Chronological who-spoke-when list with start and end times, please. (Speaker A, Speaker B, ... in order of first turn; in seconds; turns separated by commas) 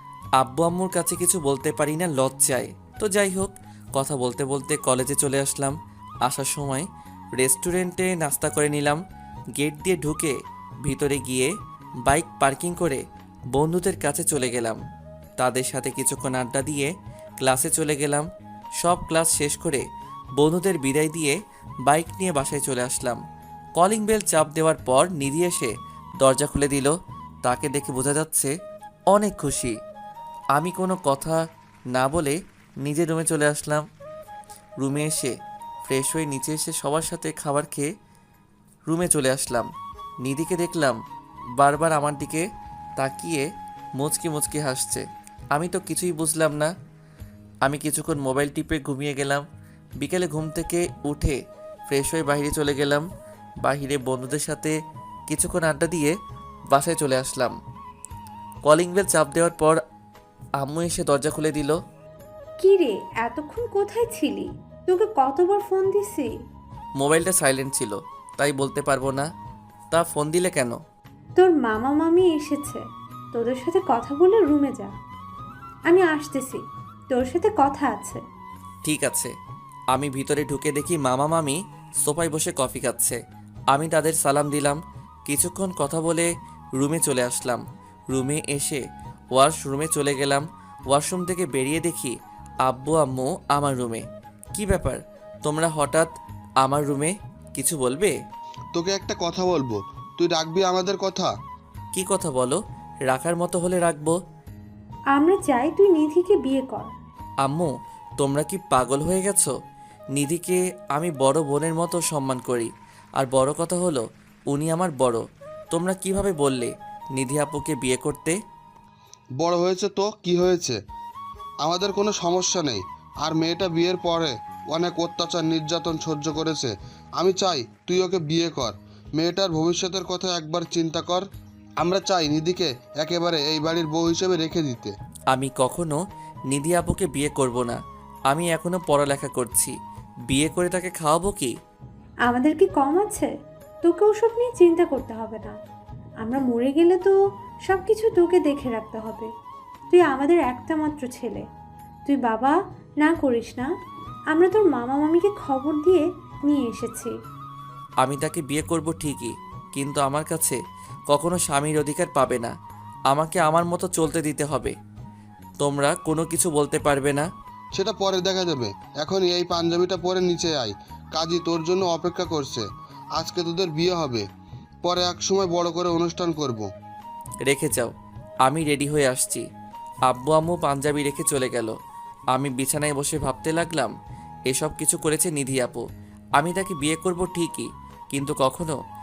Speaker A: 0.4-5.7, Speaker A: 6.2-6.9, Speaker A: 7.4-9.0, Speaker A: 9.6-11.5, Speaker A: 12.1-13.0, Speaker A: 13.5-14.8, Speaker A: 15.4-16.9, Speaker A: 17.4-18.2, Speaker A: 18.8-19.8, Speaker A: 20.4-23.2, Speaker A: 23.8-28.5, Speaker A: 29.1-29.8, Speaker A: 30.5-31.4, Speaker A: 31.9-33.8, Speaker A: 34.8-35.3, Speaker A: 35.9-37.9, Speaker A: 38.9-39.7, Speaker A: 40.2-41.0, Speaker A: 41.6-42.4, Speaker A: 43.0-43.5, Speaker A: 44.0-46.7, Speaker A: 47.6-49.4, Speaker A: 50.0-53.0, Speaker A: 53.6-54.7, Speaker A: 55.3-56.1, Speaker A: 56.7-57.5, Speaker A: 58.6-59.8, Speaker A: 60.6-61.8, Speaker B: 62.6-66.3, Speaker A: 67.0-69.3, Speaker A: 69.9-70.8, Speaker B: 71.4-72.8, Speaker B: 73.3-74.9, Speaker B: 75.9-78.2, Speaker A: 78.8-79.3, Speaker A: 79.9-83.2, Speaker A: 83.7-88.8, Speaker A: 89.3-92.1, Speaker A: 92.6-94.0, Speaker A: 94.5-96.1, Speaker A: 96.6-98.1, Speaker C: 98.7-101.3, Speaker A: 101.9-104.1, Speaker B: 105.1-106.9, Speaker A: 107.4-109.5, Speaker A: 110.2-118.4, Speaker C: 119.4-120.8, Speaker C: 121.6-131.2, Speaker C: 131.8-134.9, Speaker A: 135.3-136.0, Speaker A: 136.5-137.8, Speaker A: 138.3-139.7, Speaker A: 140.3-141.5, Speaker B: 142.2-143.3, Speaker B: 143.8-145.6, Speaker B: 146.2-147.1, Speaker B: 147.7-149.3, Speaker B: 149.9-151.4, Speaker B: 152.1-153.7, Speaker B: 154.3-157.1, Speaker A: 158.0-160.6, Speaker A: 161.1-162.5, Speaker A: 163.1-164.7, Speaker A: 165.6-167.3, Speaker C: 167.8-172.6, Speaker C: 173.2-174.2, Speaker C: 174.8-176.7, Speaker A: 177.4-177.9, Speaker A: 178.4-179.4, Speaker A: 180.1-181.7, Speaker A: 182.3-183.9, Speaker A: 184.5-185.8, Speaker A: 186.4-188.8